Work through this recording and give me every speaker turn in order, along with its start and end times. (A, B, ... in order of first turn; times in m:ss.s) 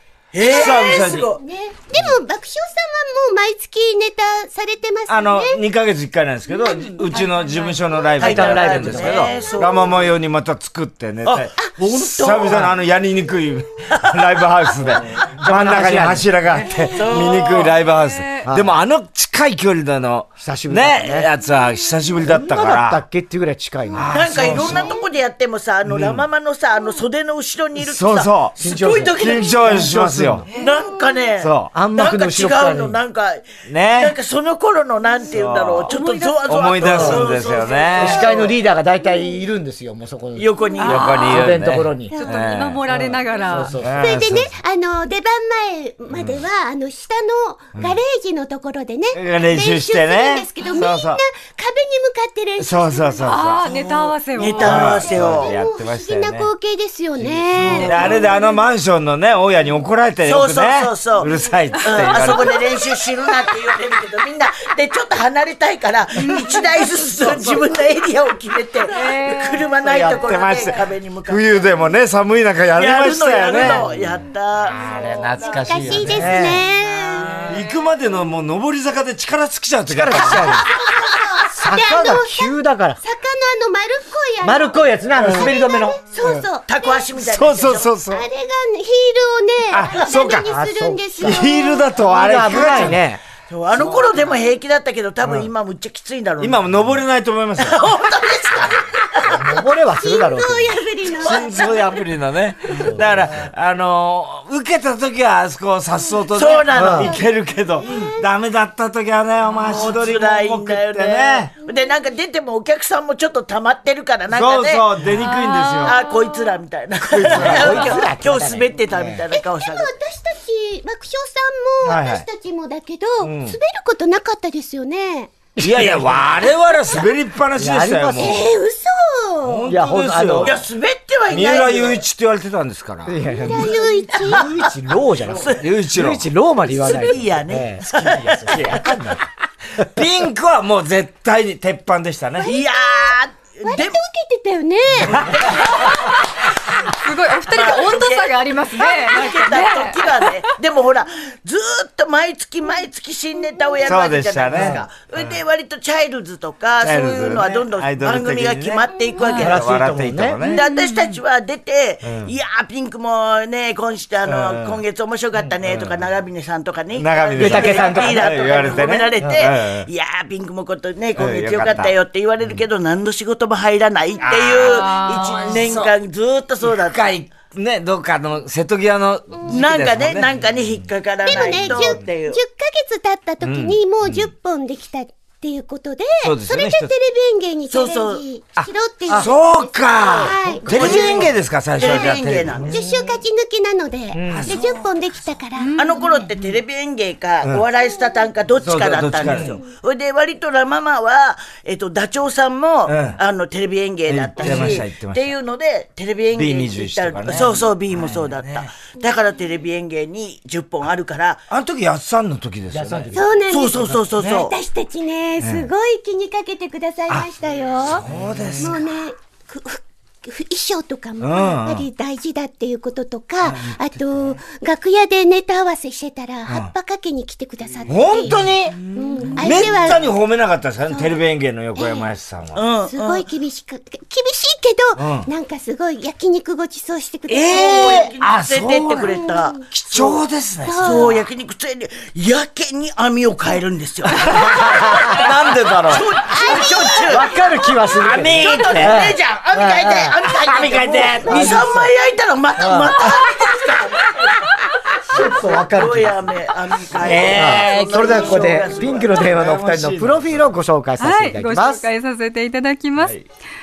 0:00.3-0:01.4 A
0:00.4-0:05.6 B
0:00.4-0:01.3 C
0:05.1-0:23.0 C
0:06.5-0:08.1 B
0:08.2-0:09.3 D
0:08.2-0:10.1 A
0:08.9-0:09.6 B
0:11.2-0:12.7 A
0:13.9-0:14.3 A
0:15.4-0:16.7 D
0:16.6-0:17.3 B
0:16.8-0:17.8 A
0:17.8-0:18.4 E
0:18.4-0:18.7 D
0:20.4-0:21.3 D
0:22.2-0:24.7 D
0:23.9-0:24.9 C
0:24.1-0:30.0 A
0:24.6-0:25.1 B
0:25.9-0:26.2 C
0:27.8-0:30.4 C
0:28.6-0:30.5 D
0:30.5-0:38.5 A
0:30.5-0:31.2 B
0:31.4-0:31.7 C
0:31.7-0:33.0 D
0:33.6-0:34.1 C
0:35.3-0:38.3 C
0:35.9-0:36.4 E
0:36.8-0:37.2 D
0:38.0-0:40.5 D
0:38.1-0:38.5 B
0:40.4-0:41.4 A
0:40.6-0:41.4 B
0:40.8-0:43.1 C
0:41.0-0:42.1 D
0:42.1-0:42.4 B
0:42.2-0:43.8 E
0:42.9-0:44.0 D
0:43.8-0:44.5 C
0:43.9-0:53.4 B
0:46.1-0:46.4 C
0:49.1-0:51.2 C
0:52.6-0:53.7 C
0:53.2-0:55.0 E
0:53.7-0:55.5 A
0:54.6-0:56.5 C
0:54.8-0:58.2 B
0:57.2-1:02.6 C
0:57.6-0:58.2 E
0:57.6-0:58.4 A
1:00.2-1:11.9 A
1:02.4-1:02.8 B
1:06.2-1:06.6 E
1:07.2-1:07.6 D
1:08.9-1:09.7 E
1:09.8-1:10.1 D
1:09.8-1:14.0 C
1:12.7-1:14.8 A
1:14.7-1:16.4 C
1:14.8-1:16.2 E
1:15.4-1:17.4 B
1:16.1-1:16.6 D
1:16.8-1:17.8 E
1:17.5-1:20.7 C
1:19.9-1:20.7 D
1:20.3-1:27.0 B
1:21.5-1:23.0 D
1:24.4-1:26.0 D
1:25.2-1:25.5 C
1:26.7-1:27.9 A
1:27.1-1:28.2 C
1:28.1-1:33.0 B
1:29.7-1:30.5 C
1:30.4-1:33.2 D
1:31.2-1:33.0 C
1:33.5-1:36.8 A
1:35.2-1:35.5 D
1:36.4-1:37.8 C
1:37.6-1:39.5 A
1:39.2-1:40.8 D
1:39.9-1:42.0 B
1:41.2-1:51.5 C
1:41.2-1:42.0 A
1:42.9-1:43.2 D
1:46.3-1:47.2 A
1:46.7-1:47.1 D
1:49.6-1:54.9 A
1:54.3-1:56.0 C
1:55.1-1:56.5 E
1:55.8-1:59.9 A
1:57.1-1:57.9 C
1:57.2-1:59.2 D
1:59.3-2:05.3 B
2:01.8-2:02.2 C
2:03.2-2:03.6 C
2:05.6-2:06.3 D
2:05.6-2:08.5 C
2:06.7-2:07.0 B
2:07.6-2:08.4 D
2:08.2-2:09.7 B
2:09.4-2:10.6 C
2:09.7-2:10.6 D
2:10.4-2:12.0 A
2:11.3-2:13.2 C
2:13.1-2:18.9 D
2:13.2-2:14.5 B
2:13.5-2:14.7 A
2:15.2-2:15.6 A
2:15.6-2:16.2 C
2:16.6-2:18.8 A
2:18.4-2:19.2 C
2:19.8-2:22.5 C
2:22.4-2:25.3 B
2:22.4-2:24.0 A
2:25.2-2:26.2 A
2:26.9-2:30.4 E
2:27.5-2:39.7 A
2:33.8-2:35.4 C
2:34.5-2:34.8 D
2:36.8-2:40.6 C
2:39.4-2:40.4 D
2:40.4-2:57.1 A
2:42.0-2:42.3 C
2:44.2-2:44.8 C
2:45.6-2:46.0 C
2:46.9-2:49.9 C
2:47.3-2:48.5 D
2:49.2-2:49.5 D
2:51.2-2:51.9 C
2:54.2-2:55.9 C
2:54.6-2:55.6 E
2:56.6-3:00.5 C
2:59.4-3:02.4 A
3:01.2-3:12.1 B
3:01.5-3:01.9 C
3:03.4-3:04.3 C
3:06.2-3:06.9 C
3:07.7-3:08.2 A
3:08.6-3:13.1 C
3:10.3-3:12.7 A
3:10.4-3:11.2 D
3:12.6-3:16.0 B
3:14.1-3:14.6 D
3:14.3-3:14.9 C
3:15.6-3:16.2 E
3:15.8-3:31.5 A
3:18.6-3:19.6 C
3:22.8-3:23.2 C
3:24.1-3:25.3 C
3:24.4-3:24.8 D
3:26.3-3:28.7 C
3:31.5-3:33.2 C
3:32.7-3:33.1 D
3:33.1-3:50.2 B
3:33.5-3:34.5 A
3:35.4-3:35.7 C
3:37.9-3:38.8 C
3:41.2-3:41.9 C
3:43.4-3:43.8 C
3:46.5-3:46.7 C
3:47.9-3:52.6 C
3:50.9-3:52.1 B
3:52.5-3:53.2 A
3:52.8-3:58.1 B
3:55.0-3:55.3 C
3:57.3-4:01.2 C
3:57.4-4:00.2 A
3:59.0-3:59.6 B
4:00.6-4:01.2 B
4:00.8-4:05.3 A
4:04.1-4:06.0 C
4:04.3-4:10.2 D
4:05.8-4:07.3 A
4:06.3-4:07.2 B
4:08.0-4:09.0 C
4:08.3-4:14.3 A
4:10.2-4:11.7 C
4:11.2-4:11.9 B
4:11.2-4:11.7 D
4:12.6-4:13.0 D
4:15.1-4:16.2 D
4:15.1-4:19.3 A
4:17.0-4:18.4 C
4:17.2-4:21.9 D
4:19.1-4:20.5 C
4:21.0-4:23.1 E
4:23.0-4:23.2 C